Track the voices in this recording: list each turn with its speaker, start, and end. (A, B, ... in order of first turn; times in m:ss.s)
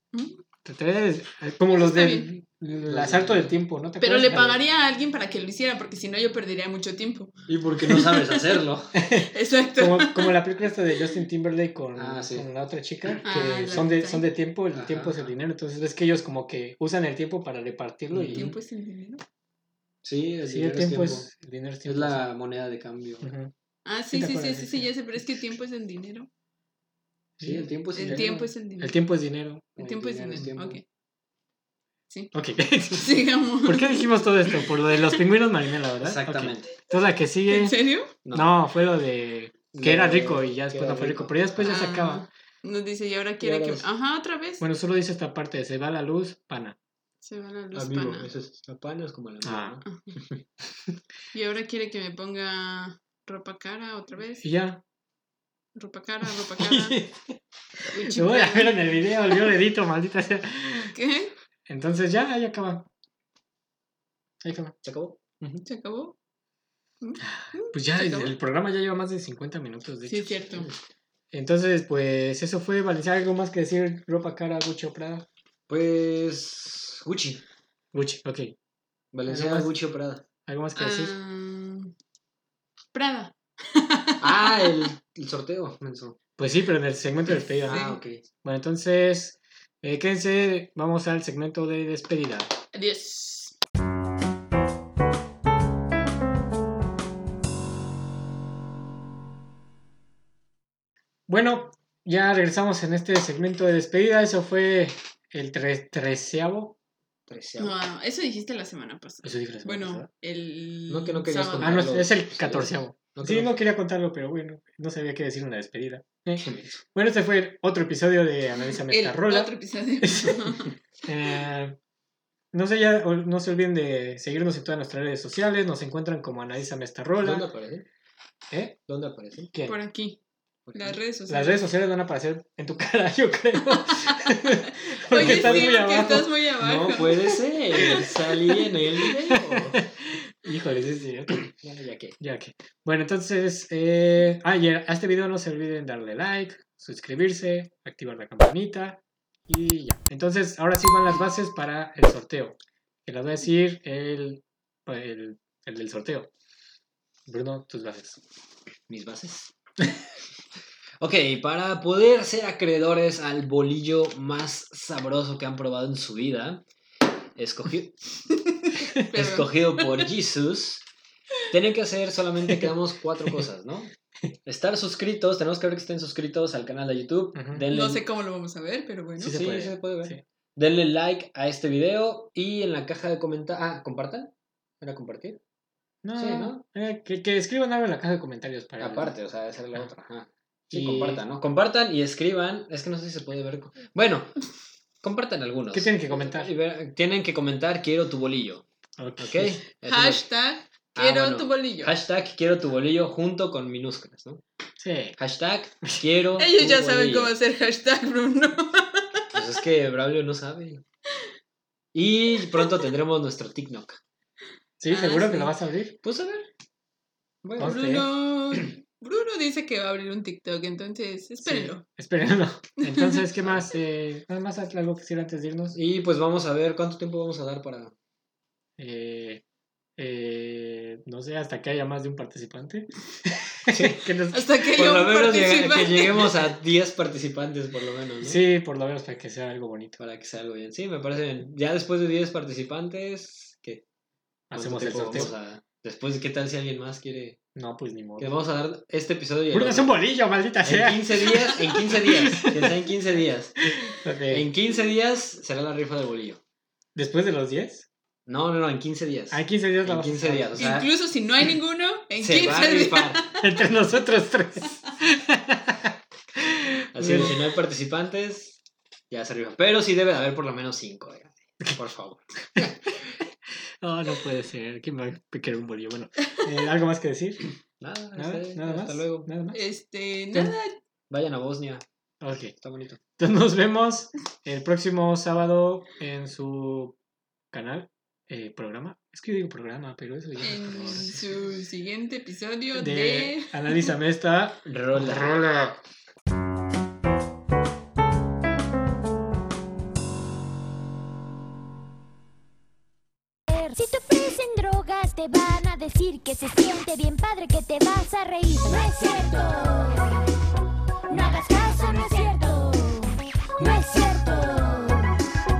0:00.1-0:00.4 A
0:00.6-0:04.6 B
0:01.7-0:02.3 A
0:02.8-0:03.6 C
0:04.0-0:08.6 A
0:07.5-0:08.9 C
0:09.0-0:18.5 B
0:09.2-0:10.4 A
0:12.0-0:12.5 C
0:13.2-0:14.3 A
0:14.7-0:15.3 C
0:18.1-0:18.5 C
0:18.3-0:19.2 A
0:20.0-0:21.3 C
0:20.5-0:22.3 B
0:21.8-0:23.3 C
0:23.2-0:23.5 B
0:23.8-0:26.3 A
0:24.1-0:24.9 B
0:27.4-0:29.8 B
0:27.4-0:28.5 C
0:27.9-0:29.0 A
0:29.8-0:30.8 C
0:29.8-0:30.8 A
0:32.3-0:37.8 B
0:32.9-0:35.2 A
0:36.0-0:36.7 C
0:37.5-0:38.1 A
0:38.2-0:38.5 C
0:38.3-0:42.2 B
0:39.7-0:41.8 C
0:41.6-0:44.6 A
0:43.4-0:43.8 C
0:44.6-0:46.8 B
0:47.2-0:48.3 A
0:47.7-0:50.4 C
0:49.4-0:49.8 B
0:49.8-0:50.1 A
0:51.3-0:54.5 A
0:54.4-0:54.8 B
0:55.7-0:57.0 A
0:56.5-1:00.9 B
0:57.9-0:58.8 A
1:00.9-1:01.3 A
1:01.7-1:02.9 B
1:04.4-1:04.8 B
1:04.8-1:05.6 C
1:05.6-1:06.2 A
1:07.0-1:08.3 A
1:07.2-1:10.4 B
1:10.0-1:10.7 A
1:10.5-1:10.8 C
1:11.3-1:15.2 B
1:15.7-1:17.4 C
1:17.9-1:18.5 B
1:19.1-1:20.2 C
1:19.3-1:19.7 B
1:20.4-1:21.1 B
1:20.8-1:21.9 A
1:22.9-1:24.8 A
1:24.2-1:26.2 C
1:26.4-1:27.9 B
1:27.6-1:28.0 A
1:27.7-1:28.2 C
1:28.4-1:32.5 B
1:32.7-1:33.6 A
1:41.3-1:46.8 B
1:47.3-1:47.8 C
1:47.6-1:52.1 A
1:49.2-1:50.1 B
1:50.9-1:53.6 C
1:51.6-2:01.8 B
1:56.4-1:56.8 C
1:58.9-2:00.7 A
2:02.5-2:07.5 B
2:07.2-2:07.8 C
2:08.5-2:08.8 B
2:08.9-2:09.5 C
2:09.5-2:09.8 B
2:09.6-2:10.2 A
2:10.6-2:11.0 C
2:10.7-2:11.6 A
2:11.3-2:16.3 B
2:13.9-2:14.4 A
2:15.1-2:18.0 A
2:15.1-2:16.0 C
2:16.6-2:19.8 C
2:19.0-2:21.5 B
2:21.4-2:22.2 C
2:22.2-2:36.3 B
2:37.3-2:38.2 B
2:38.9-2:39.5 C
2:41.0-2:46.6 C
2:47.4-2:48.0 C
2:48.5-2:50.1 A
2:49.1-2:50.8 C
2:51.5-2:53.9 C
2:54.4-2:58.0 C
2:57.3-2:57.7 B
2:57.7-2:59.4 A
2:59.2-3:00.2 B
2:59.2-3:05.4 C
3:06.0-3:09.2 B
3:06.2-3:06.6 C
3:08.8-3:14.4 C
3:10.7-3:11.2 B
3:15.0-3:18.6 C
3:15.7-3:16.5 B
3:19.0-3:19.6 B
3:19.2-3:20.2 C
3:19.8-3:21.9 A
3:20.9-3:24.4 C
3:24.8-3:25.2 B
3:25.2-3:27.3 C
3:26.4-3:29.2 A
3:29.3-3:30.8 C
3:31.9-3:34.0 C
3:32.4-3:32.8 A
3:34.8-3:36.0 B
3:34.9-3:35.5 A
3:36.0-3:36.5 C
3:37.4-3:37.8 C
3:37.6-3:38.1 B
3:37.6-3:41.8 A
3:41.4-3:45.8 B
3:42.8-3:43.2 A
3:45.7-3:47.9 C
3:48.8-3:49.4 B
3:50.0-3:54.4 B
3:53.7-3:54.0 C
3:54.3-3:56.3 A
3:54.6-3:58.4 C
3:58.2-4:00.0 B
4:00.0-4:03.8 C
4:04.5-4:05.3 B
4:04.5-4:07.4 C
4:07.5-4:08.4 B
4:08.2-4:10.0 C
4:09.5-4:12.7 B
4:10.6-4:13.5 C
4:13.7-4:14.5 B
4:14.3-4:16.4 C
4:17.0-4:17.9 B
4:18.2-4:20.9 C
4:19.3-4:20.6 B
4:20.6-4:23.5 A
4:22.2-4:23.2 C
4:23.4-4:27.4 B
4:26.9-4:28.6 C
4:29.1-4:32.8 C
4:33.8-4:37.4 B
4:37.8-4:39.3 C
4:38.2-4:39.6 B
4:39.5-4:40.8 A
4:41.1-4:41.8 C
4:42.2-4:42.5 B
4:42.6-4:43.0 C
4:43.2-4:47.0 B
4:47.5-4:51.2 B
4:50.4-4:53.9 A
4:52.7-4:55.8 B
4:54.6-4:55.4 C
5:03.5-5:10.1 D
5:11.1-5:15.1 D